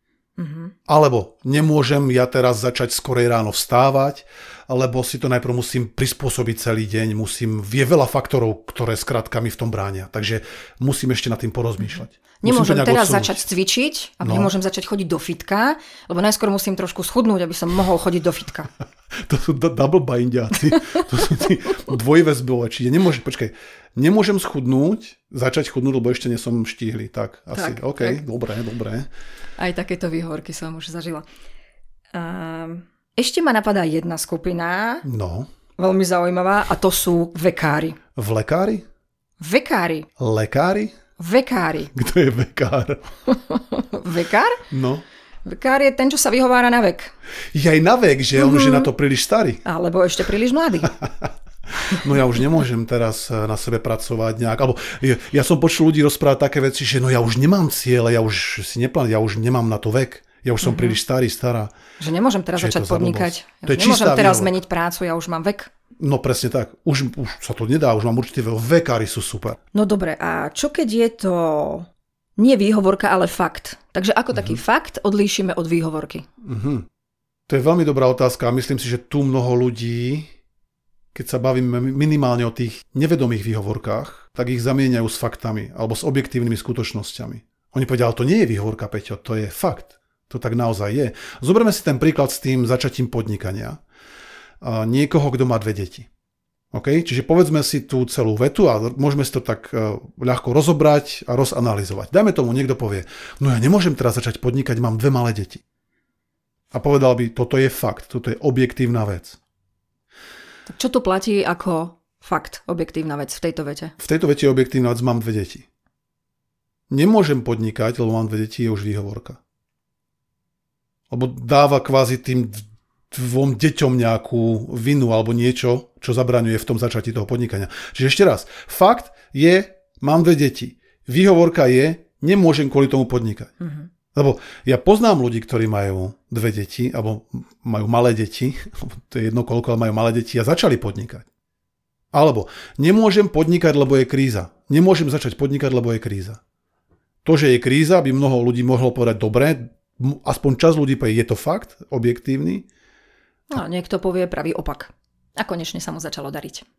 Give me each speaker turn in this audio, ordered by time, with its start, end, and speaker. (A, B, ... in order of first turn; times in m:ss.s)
0:00.4-0:00.7 A
0:00.9-0:13.5 B
0:12.4-0:18.7 A
0:14.2-0:14.5 B
0:19.2-0:29.1 B
0:27.5-0:28.2 A
0:29.6-0:31.2 A
0:32.1-0:35.0 A
0:35.0-0:35.5 B
0:35.8-0:38.0 A
0:38.2-0:38.8 B
0:39.4-0:40.1 A
0:40.2-0:41.0 B
0:41.2-0:41.9 A
0:41.9-0:43.0 B
0:43.3-0:44.6 A
0:44.7-0:45.0 B
0:45.4-0:47.1 A
0:47.5-0:49.6 B
0:48.4-0:48.9 A
0:49.6-0:51.0 A
0:51.0-1:01.7 B
1:00.6-1:01.0 A
1:02.0-1:05.7 A
1:02.5-1:04.6 B
1:06.0-1:09.6 B
1:09.7-1:16.2 A
1:16.4-1:16.9 B
1:17.5-1:20.3 B
1:21.1-1:33.8 B
1:34.6-1:36.1 B
1:36.7-1:45.6 B
1:46.7-1:49.4 B
1:50.7-1:53.9 A
1:54.0-1:55.6 B
1:56.9-1:59.4 B
2:01.1-2:13.5 B
2:13.6-2:13.9 A
2:14.1-2:21.3 B
2:22.1-2:26.4 B
2:27.2-2:32.7 B
2:33.5-2:36.6 A